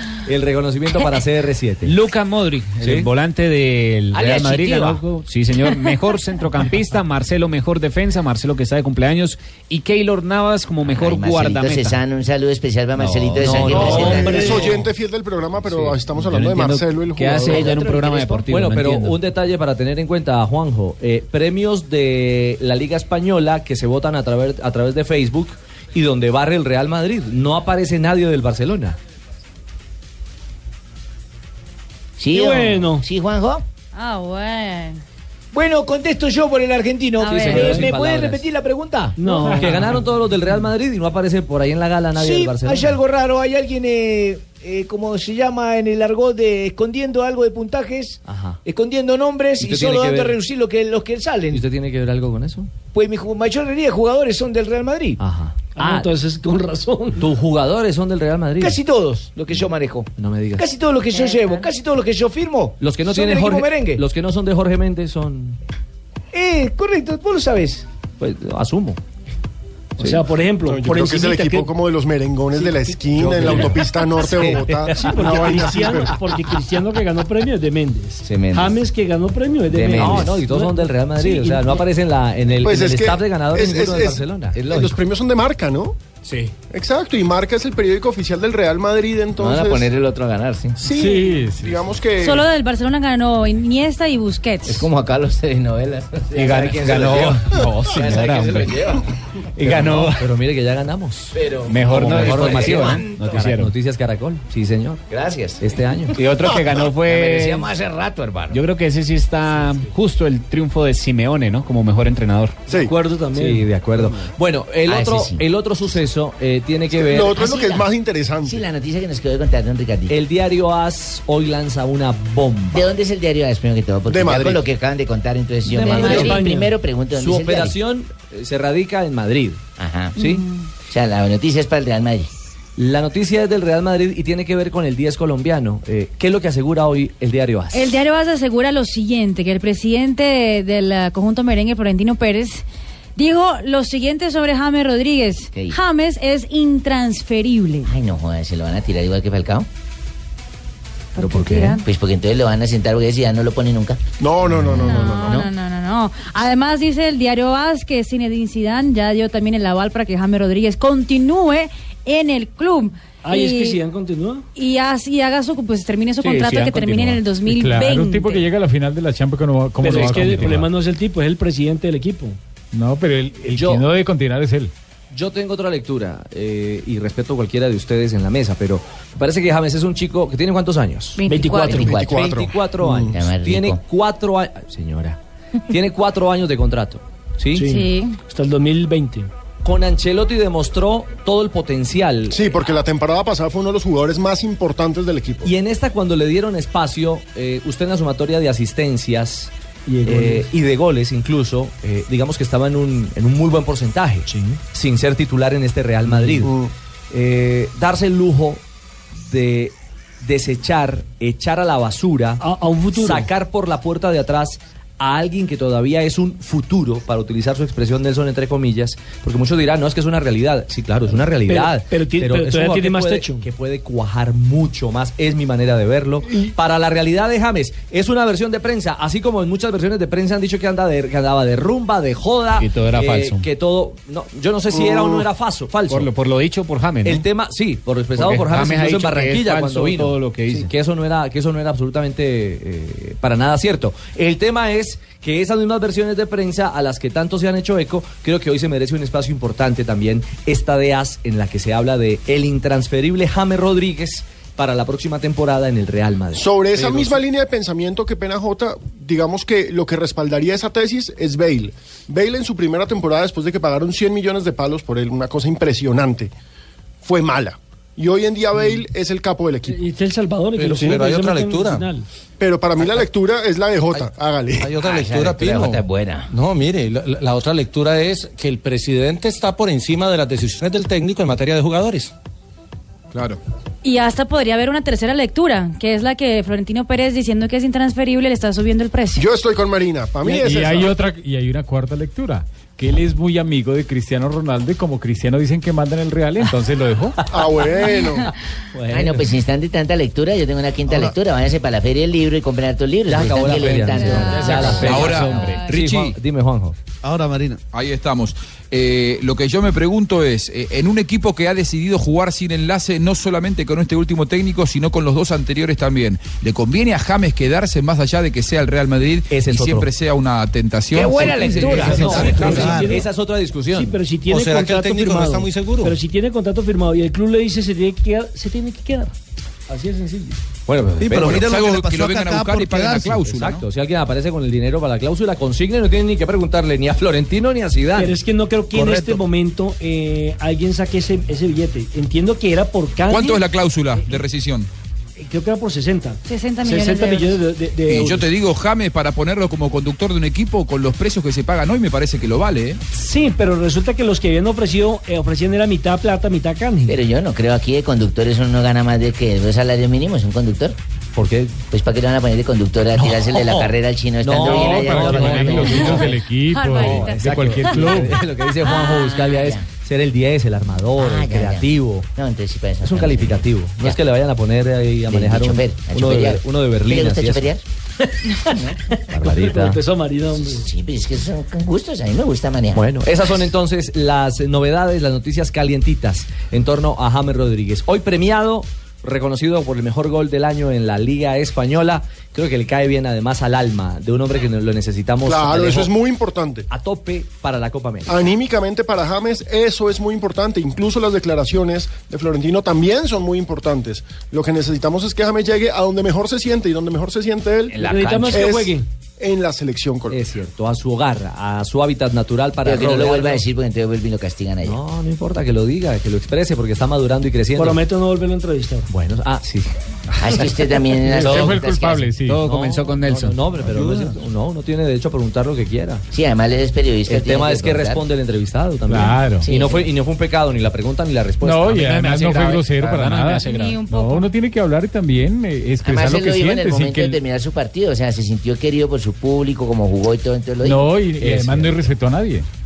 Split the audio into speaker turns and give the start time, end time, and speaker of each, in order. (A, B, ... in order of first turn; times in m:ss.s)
0:00.3-0:02.0 A
0:01.8-0:12.0 B
0:02.8-0:03.1 A
0:04.1-0:05.0 C
0:10.8-0:14.6 C
0:13.0-0:14.8 A
0:13.7-0:14.7 D
0:13.8-0:17.8 E
0:15.7-0:16.0 A
0:16.3-0:19.2 B
0:17.5-0:18.4 F
0:18.5-0:29.0 A
0:32.2-0:33.6 C
0:32.3-0:33.0 D
0:33.9-0:35.0 G
0:35.5-0:39.2 F
0:37.2-0:37.8 G
0:37.2-0:38.5 A
0:39.2-0:40.0 D
0:39.6-0:43.0 A
0:42.2-0:51.6 F
0:48.3-0:48.6 A
0:49.6-0:50.4 A
0:51.5-0:52.7 A
0:52.9-0:55.2 F
0:55.2-0:56.1 A
0:55.8-0:57.2 D
0:57.2-0:58.8 A
0:58.6-1:04.0 F
1:00.2-1:00.7 A
1:01.1-1:01.6 G
1:02.8-1:05.6 A
1:06.3-1:07.9 F
1:08.2-1:09.0 A
1:10.0-1:11.7 D
1:10.6-1:16.2 E
1:12.5-1:13.8 D
1:13.3-1:15.2 A
1:14.9-1:21.8 D
1:18.2-1:18.8 C
1:19.7-1:20.3 C
1:19.9-1:25.0 A
1:22.6-1:26.0 E
1:26.7-1:29.9 E
1:29.4-1:30.8 C
1:30.8-1:32.5 E
1:30.8-1:31.9 H
1:32.2-1:34.9 G
1:34.6-1:39.0 C
1:36.3-1:38.8 B
1:39.6-1:41.4 A
1:39.6-1:40.2 B
1:41.4-1:41.8 F
1:41.7-1:43.7 B
1:41.9-1:45.0 A
1:41.9-1:43.0 C
1:42.7-1:43.2 F
1:45.1-1:45.6 C
1:45.6-1:46.2 A
1:46.1-1:47.7 B
1:47.1-1:48.6 C
1:48.5-1:52.6 B
1:52.7-1:54.1 D
1:53.4-1:57.4 A
1:54.9-1:55.4 C
1:56.9-1:58.6 E
1:57.4-1:57.8 C
1:58.4-2:00.2 C
2:00.1-2:02.9 A
2:02.7-2:07.8 C
2:04.1-2:04.7 E
2:05.7-2:06.7 D
2:05.8-2:06.5 G
2:07.2-2:09.6 A
2:09.8-2:10.2 C
2:10.2-2:10.4 A
2:10.2-2:10.7 G
2:10.9-2:12.3 C
2:12.8-2:18.0 A
2:17.7-2:22.6 G
2:23.2-2:27.9 G
2:25.5-2:25.8 C
2:27.8-2:29.7 C
2:31.2-2:31.8 G
2:31.2-2:31.8 A
2:31.6-2:35.5 C
2:34.2-2:35.5 E
2:34.8-2:43.8 G
2:43.2-2:44.5 D
2:44.6-2:48.5 G
2:46.2-2:47.2 B
2:47.5-2:50.7 H
2:49.8-2:52.4 D
2:50.1-2:50.5 A
2:52.7-2:54.7 H
2:53.5-2:53.8 A
2:55.1-3:01.2 A
3:01.2-3:01.9 G
3:01.3-3:01.9 D
3:01.6-3:02.2 C
3:01.8-3:03.2 E
3:01.9-3:07.7 A
3:03.1-3:03.8 C
3:07.6-3:09.3 D
3:07.6-3:08.2 G
3:09.6-3:12.4 A
3:12.3-3:15.5 E
3:15.4-3:19.5 A
3:19.9-3:20.5 D
3:20.0-3:26.5 A
3:24.3-3:24.6 D
3:26.4-3:26.7 E
3:27.1-3:28.6 A
3:29.2-3:32.4 A
3:32.4-3:33.3 D
3:33.0-3:56.1 A
3:41.5-3:43.4 D
3:46.2-3:46.5 E
3:52.6-3:53.4 B
3:54.7-3:55.3 E
3:55.9-3:57.3 B
3:57.0-4:17.2 A
3:58.2-4:00.7 B
4:16.3-4:26.3 E
4:27.0-4:29.8 E
4:29.7-4:32.1 D
4:30.6-4:31.9 I
4:32.4-4:34.7 E
4:33.9-4:42.1 I
4:34.8-4:36.3 C
4:43.1-4:43.4 J
4:43.8-4:49.3 G
4:49.2-4:51.0 E
4:50.2-4:57.2 H
4:57.3-4:58.3 E
4:58.7-4:59.3 A
4:58.9-5:04.9 C
5:03.1-5:06.8 A
5:03.8-5:05.7 G
5:04.8-5:06.2 J
5:05.2-5:05.5 B
5:07.7-5:22.7 J
5:19.3-5:19.9 A
5:20.9-5:22.0 F
5:21.3-5:24.0 A
5:21.5-5:23.1 D
5:22.4-5:22.9 I
5:23.7-5:29.1 D
5:24.3-5:26.0 I
5:29.7-5:30.4 D
5:30.7-5:31.5 A
5:31.1-5:31.8 I
5:31.3-5:33.6 J
5:33.2-5:38.2 A
5:38.0-5:43.4 D
5:43.1-5:44.7 J
5:45.2-5:48.3 D
5:46.3-5:47.4 G
5:47.9-5:52.8 J
5:52.9-5:57.0 D
5:56.9-6:00.8 C
6:01.2-6:01.5 A
6:01.7-6:06.1 C
6:03.0-6:06.2 A
6:04.4-6:08.2 H
6:05.6-6:05.9 G
6:06.5-6:07.9 G
6:06.8-6:12.1 A
6:08.6-6:09.3 G
6:09.3-6:09.6 C
6:11.0-6:14.0 C
6:12.8-6:17.5 A
6:15.1-6:17.6 C
6:19.1-6:19.8 A
6:19.2-6:20.7 D
6:20.4-6:22.9 C
6:22.7-6:35.9 A
6:35.2-6:36.7 E
6:36.7-6:38.2 A
6:38.1-6:50.2 E
6:47.7-6:48.4 C
6:47.8-6:48.8 D
6:50.1-6:53.4 A
6:52.6-6:54.8 C
6:54.6-6:57.8 A
6:57.6-6:58.9 D
6:58.9-6:59.7 A
7:00.2-7:02.1 C
7:01.1-7:02.4 H
7:01.2-7:01.5 A
7:02.3-7:03.4 B
7:02.4-7:06.0 A
7:06.1-7:08.0 C
7:07.1-7:12.1 A
7:08.9-7:09.5 H
7:09.4-7:09.9 C
7:11.4-7:17.2 H
7:11.8-7:13.8 B
7:13.4-7:14.3 G
7:15.8-7:20.9 C
7:20.6-7:22.5 H
7:21.2-7:21.8 A